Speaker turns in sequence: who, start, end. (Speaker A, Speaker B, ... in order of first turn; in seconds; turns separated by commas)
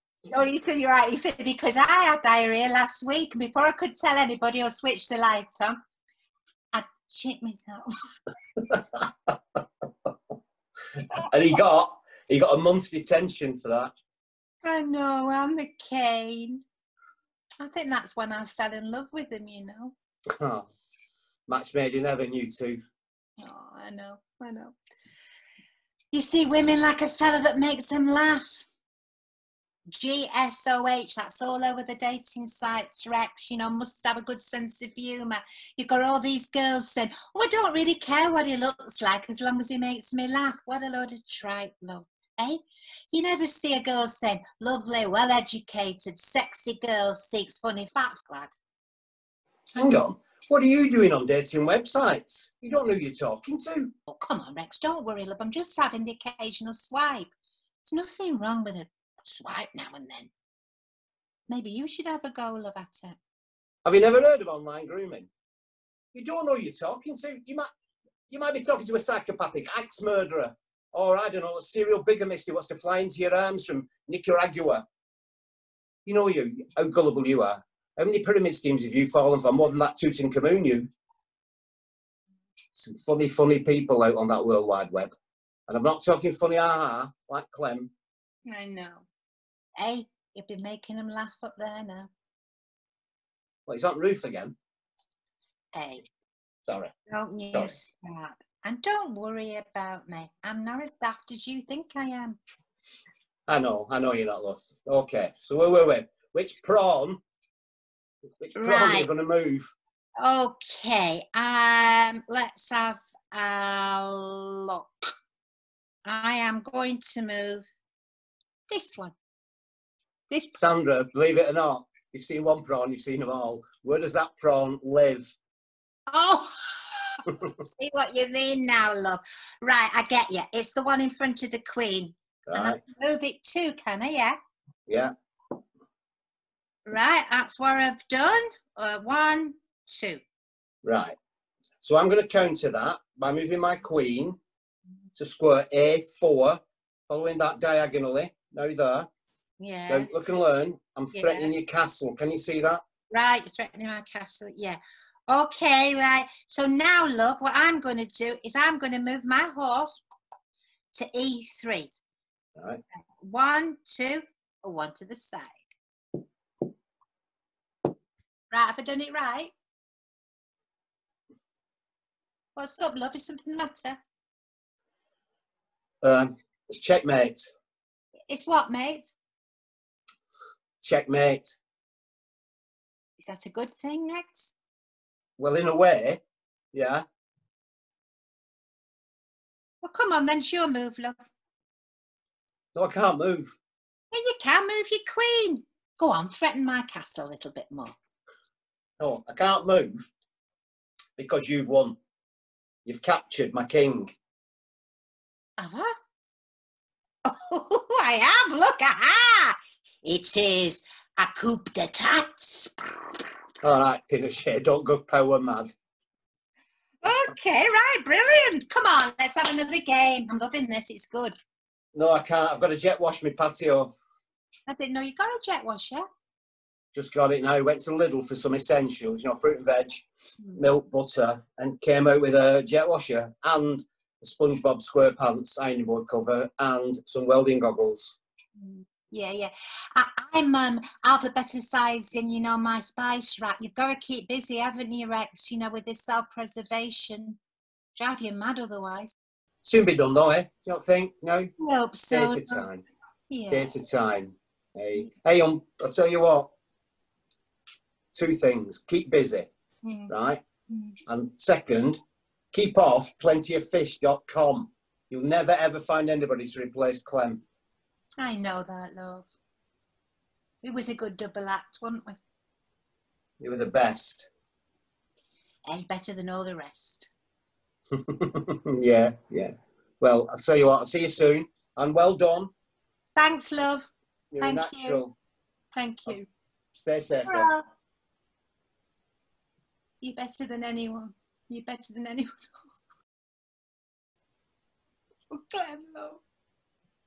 Speaker A: 0.3-5.8, Speaker A: 6.7-7.9, Speaker B: 11.2-13.9, Speaker A: 14.6-16.6, Speaker A: 17.6-19.9, Speaker B: 20.3-20.7, Speaker B: 21.5-22.8, Speaker A: 23.4-24.8, Speaker A: 26.1-28.7, Speaker A: 29.9-42.6, Speaker A: 43.1-48.5, Speaker B: 49.8-53.9, Speaker A: 54.1-57.3, Speaker A: 57.8-60.3, Speaker A: 61.5-63.2, Speaker B: 63.8-65.3, Speaker B: 66.1-67.7, Speaker B: 68.3-74.8, Speaker B: 76.0-80.9, Speaker B: 82.7-85.1, Speaker B: 85.7-87.9, Speaker A: 88.5-89.0, Speaker A: 89.8-92.1, Speaker B: 93.7-94.5, Speaker A: 95.7-96.0, Speaker B: 96.6-96.9, Speaker A: 97.1-102.4, Speaker B: 103.5-107.2, Speaker B: 108.4-109.7, Speaker A: 108.5-109.1, Speaker A: 110.2-114.9, Speaker A: 116.0-117.6, Speaker A: 118.7-119.1, Speaker A: 120.3-120.6, Speaker B: 120.5-125.3, Speaker A: 126.1-134.4, Speaker B: 132.5-132.8, Speaker A: 136.8-140.2, Speaker B: 140.8-141.2, Speaker B: 141.8-144.4, Speaker B: 145.2-149.1, Speaker A: 149.6-150.1, Speaker B: 149.9-152.8, Speaker A: 151.1-151.5, Speaker A: 153.1-160.0, Speaker A: 160.9-161.9, Speaker B: 162.6-162.8, Speaker A: 163.2-165.8, Speaker A: 168.5-169.5, Speaker A: 172.6-174.0, Speaker B: 176.0-177.5, Speaker A: 178.3-179.1, Speaker B: 180.8-181.6, Speaker A: 183.2-184.5, Speaker B: 185.4-186.2, Speaker B: 186.7-187.0, Speaker A: 189.8-191.3, Speaker B: 192.7-193.6, Speaker A: 194.1-197.9, Speaker B: 199.0-200.1, Speaker B: 201.2-202.0, Speaker B: 202.8-204.1, Speaker A: 205.6-205.9, Speaker A: 207.2-213.3, Speaker B: 213.6-215.7, Speaker A: 217.0-221.3, Speaker B: 221.9-223.9, Speaker A: 224.7-226.0, Speaker B: 226.9-238.2, Speaker A: 238.6-247.4, Speaker A: 247.9-249.1, Speaker B: 249.6-251.5, Speaker A: 251.6-252.6, Speaker B: 252.1-252.8, Speaker A: 253.3-253.7, Speaker B: 253.5-256.5, Speaker B: 258.1-259.5, Speaker A: 259.8-260.1, Speaker B: 260.1-260.4, Speaker A: 260.7-261.0, Speaker B: 261.1-262.0, Speaker B: 262.5-267.4, Speaker A: 268.2-269.3, Speaker A: 270.6-272.2, Speaker B: 273.4-274.3, Speaker A: 275.7-277.1, Speaker B: 277.9-282.5, Speaker A: 283.1-285.0, Speaker B: 284.3-285.1, Speaker A: 285.7-286.3, Speaker B: 286.7-287.5, Speaker A: 287.3-287.6, Speaker A: 290.0-292.6, Speaker A: 295.3-296.2